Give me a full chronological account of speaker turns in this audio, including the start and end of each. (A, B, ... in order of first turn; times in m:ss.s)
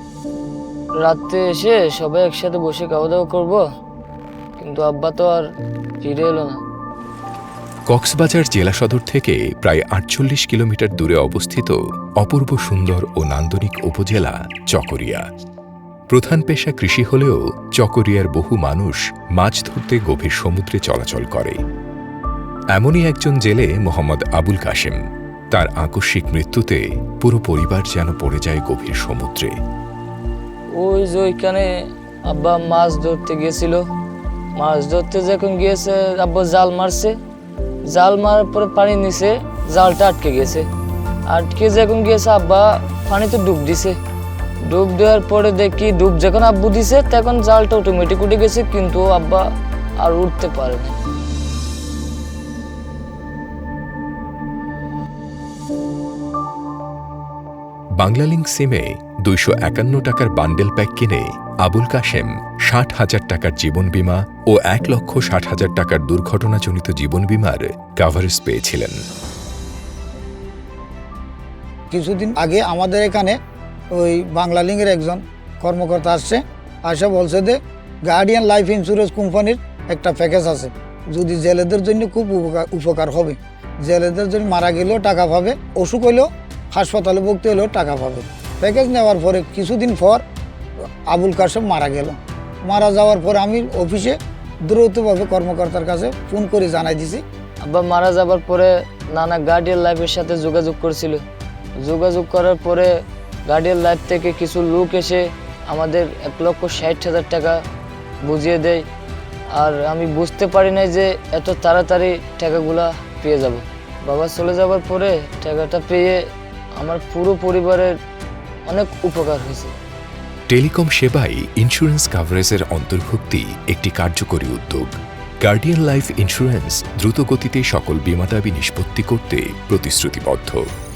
0:01.0-0:03.6 A
0:04.6-0:05.4 A
0:06.0-0:06.6 A
0:07.9-0:15.2 B
0:16.1-0:21.6 B
0:22.8-0:25.0 B
0:25.5-0:29.6 B
0:30.7-0:31.7 A
0:32.3-0:33.8 A
0:34.6-0:37.2 A
0:37.9-0:40.7 A
0:41.3-0:44.0 A
0:44.7-0:49.5 A
0:50.0-0:51.0 A
0:58.0-1:09.0 B
1:11.9-1:13.4 C
1:13.9-1:30.2 C
1:31.1-1:37.2 C
1:37.6-1:41.2 A
1:41.8-1:47.6 A
1:48.2-1:48.9 A
1:49.5-1:56.2 A
1:56.8-1:58.0 A
1:58.7-1:59.7 A
2:00.5-2:10.6 B